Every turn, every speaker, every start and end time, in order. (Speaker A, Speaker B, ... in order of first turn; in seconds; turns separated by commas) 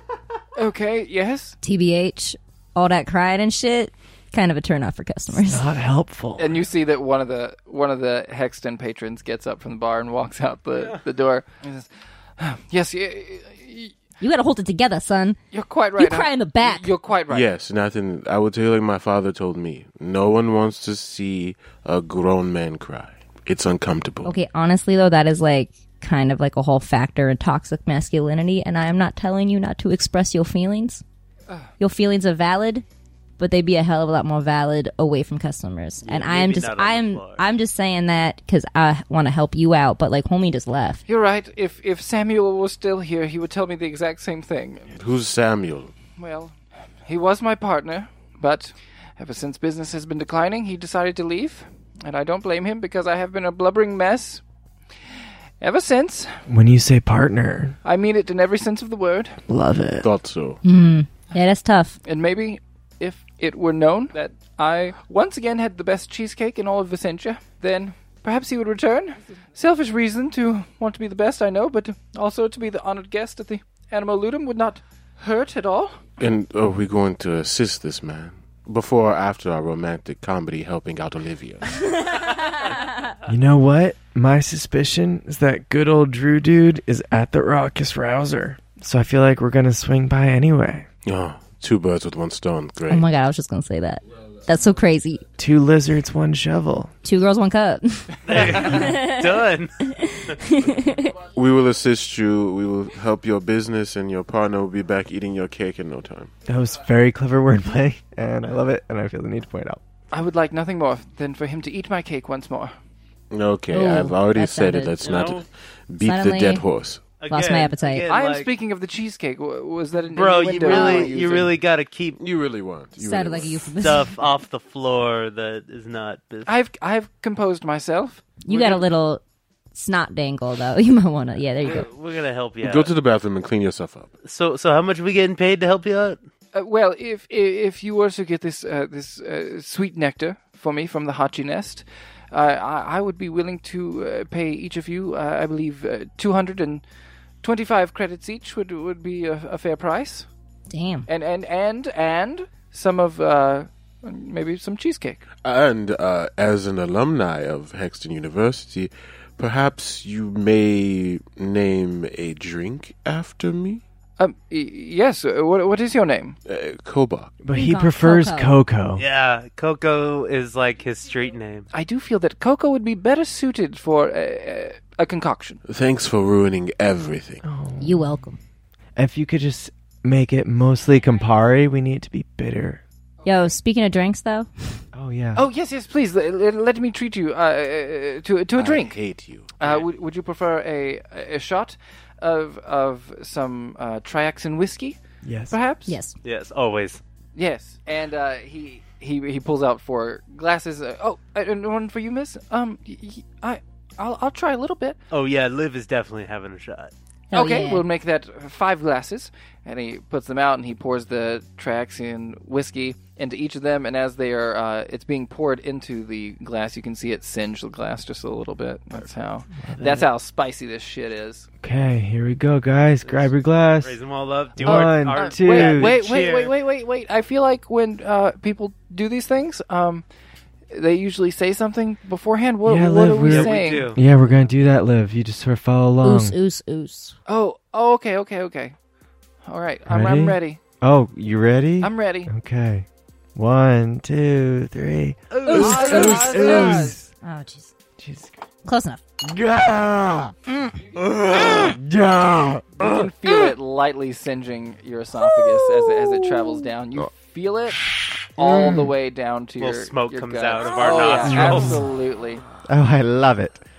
Speaker A: 0.6-1.6, Speaker B: 1.6-5.6, Speaker C: 5.4-6.6, Speaker A: 6.4-13.9, Speaker B: 14.2-15.4, Speaker A: 15.5-17.5, Speaker B: 15.9-16.9, Speaker D: 17.3-24.3, Speaker B: 24.2-31.0, Speaker B: 31.8-32.8, Speaker B: 33.4-41.0, Speaker E: 36.0-37.4, Speaker A: 41.1-44.9, Speaker D: 44.9-45.9, Speaker A: 46.1-54.4, Speaker A: 55.6-56.4, Speaker C: 56.5-57.8, Speaker A: 57.8-59.4, Speaker C: 59.5-60.1, Speaker D: 60.0-60.6, Speaker B: 60.6-62.0, Speaker A: 62.0-76.0, Speaker D: 76.2-81.9, Speaker C: 83.3-90.8, Speaker D: 91.0-93.1, Speaker B: 92.9-95.2, Speaker C: 95.4-96.9, Speaker B: 97.0-101.1, Speaker E: 98.2-100.3, Speaker D: 101.3-106.3, Speaker C: 106.5-109.8, Speaker A: 110.1-112.7, Speaker D: 113.3-117.0, Speaker B: 113.7-115.0, Speaker E: 115.0-115.4, Speaker B: 116.0-116.6, Speaker E: 117.2-118.5, Speaker B: 117.3-118.1, Speaker A: 118.1-121.5, Speaker E: 120.1-122.2, Speaker B: 120.7-121.2, Speaker D: 122.2-123.6, Speaker B: 123.0-124.2, Speaker E: 123.8-126.5, Speaker A: 126.4-128.8, Speaker B: 128.4-129.2, Speaker B: 129.7-131.9, Speaker E: 131.6-132.9, Speaker D: 132.6-134.1, Speaker E: 134.2-136.2, Speaker A: 136.5-146.8, Speaker A: 147.4-150.3, Speaker B: 150.7-151.1, Speaker A: 151.1-155.2, Speaker D: 155.4-163.8, Speaker A: 164.2-166.4, Speaker D: 166.4-167.3, Speaker C: 167.4-169.0, Speaker B: 167.5-168.6, Speaker E: 169.0-171.7, Speaker A: 171.7-175.6, Speaker D: 175.7-177.4, Speaker C: 177.4-178.2, Speaker B: 177.8-178.4, Speaker C: 179.0-182.8, Speaker B: 183.2-184.8, Speaker C: 184.9-185.4, Speaker A: 185.3-189.0, Speaker D: 188.5-189.5, Speaker A: 189.6-195.0, Speaker C: 195.2-195.6, Speaker A: 195.5-196.0, Speaker B: 195.9-196.1, Speaker E: 196.2-197.0, Speaker A: 197.3-205.0, Speaker E: 205.1-206.9, Speaker B: 207.3-207.8, Speaker A: 207.3-221.5, Speaker C: 219.6-220.1, Speaker C: 221.6-224.0, Speaker E: 223.8-226.5, Speaker C: 224.6-226.0, Speaker A: 224.6-230.0, Speaker A: 230.7-233.9, Speaker C: 232.6-236.3, Speaker E: 233.2-234.0, Speaker B: 236.0-237.2, Speaker A: 237.3-238.7, Speaker A: 239.4-240.6, Speaker C: 239.9-247.1, Speaker A: 241.8-242.3, Speaker E: 245.3-246.2, Speaker A: 245.4-247.0, Speaker B: 245.5-247.7, Speaker C: 248.0-248.3, Speaker B: 248.6-249.0, Speaker C: 249.2-250.3, Speaker B: 250.5-250.8, Speaker C: 250.9-253.1, Speaker A: 252.8-257.8, Speaker A: 258.3-262.4, Speaker C: 258.5-258.8, Speaker E: 259.6-261.9, Speaker C: 261.2-261.9, Speaker C: 262.6-263.6